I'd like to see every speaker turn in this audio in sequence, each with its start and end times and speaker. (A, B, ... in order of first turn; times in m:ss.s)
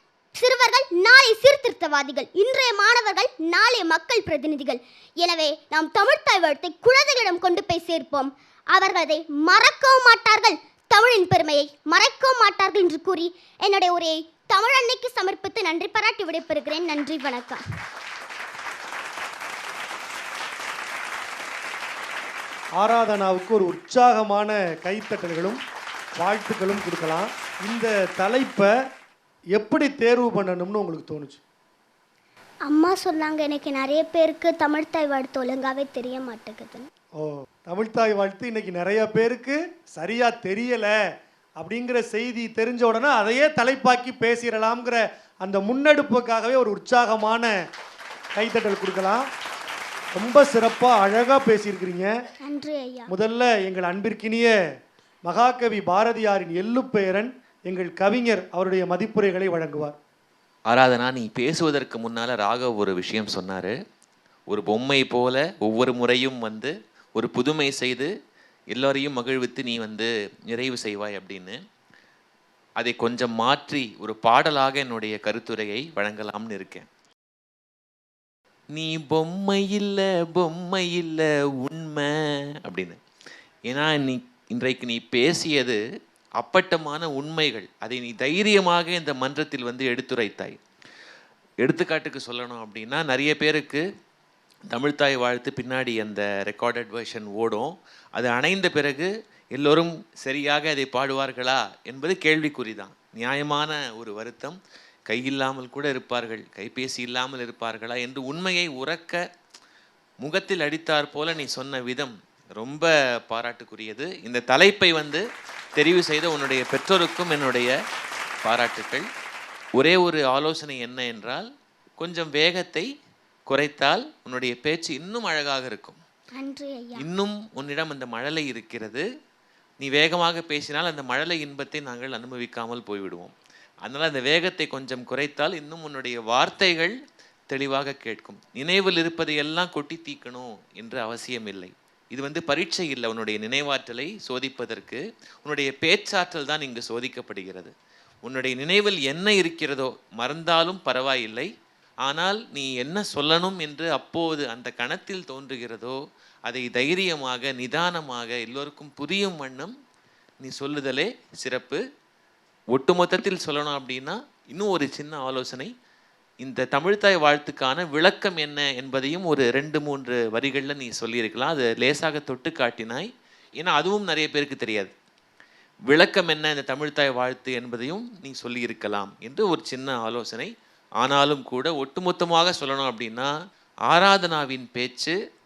0:00.4-0:17.6 A
0:22.8-0:25.6 B
0:26.2-0:28.7 B
0:29.5-0:31.4 B
0:32.7-0:36.9 A
0:37.2-0:40.9 B
0:41.6-0:47.5 B
0:48.4-0:49.2 B
0:50.1-0:52.1 B
0:52.4-0:53.1 A
0:53.1-0:54.5 B
0:55.2-1:00.0 B
1:00.7-1:03.7 C
1:04.5-1:08.1 C
1:08.7-1:11.6 C
1:12.8-1:16.9 C
1:18.7-1:22.1 C
1:22.6-1:23.0 C
1:23.7-1:25.8 C
1:26.4-1:30.6 C
1:31.6-1:33.8 C
1:34.7-1:44.6 C
1:45.1-1:49.2 C
1:50.2-1:55.2 C
1:55.8-1:57.7 C
1:58.4-1:59.0 C
1:59.8-2:01.5 C
2:02.0-2:02.9 C
2:03.5-2:06.0 C
2:06.3-2:07.0 A
2:07.0-2:09.0 C
2:09.8-2:13.3 C
2:13.8-2:16.9 C
2:17.5-2:27.7 C
2:28.2-2:31.5 C
2:32.0-2:39.7 C
2:40.4-2:41.8 C
2:42.7-2:45.7 C
2:46.4-2:53.1 C
2:53.6-2:54.9 C
2:55.9-3:03.3 C
3:03.9-3:05.1 C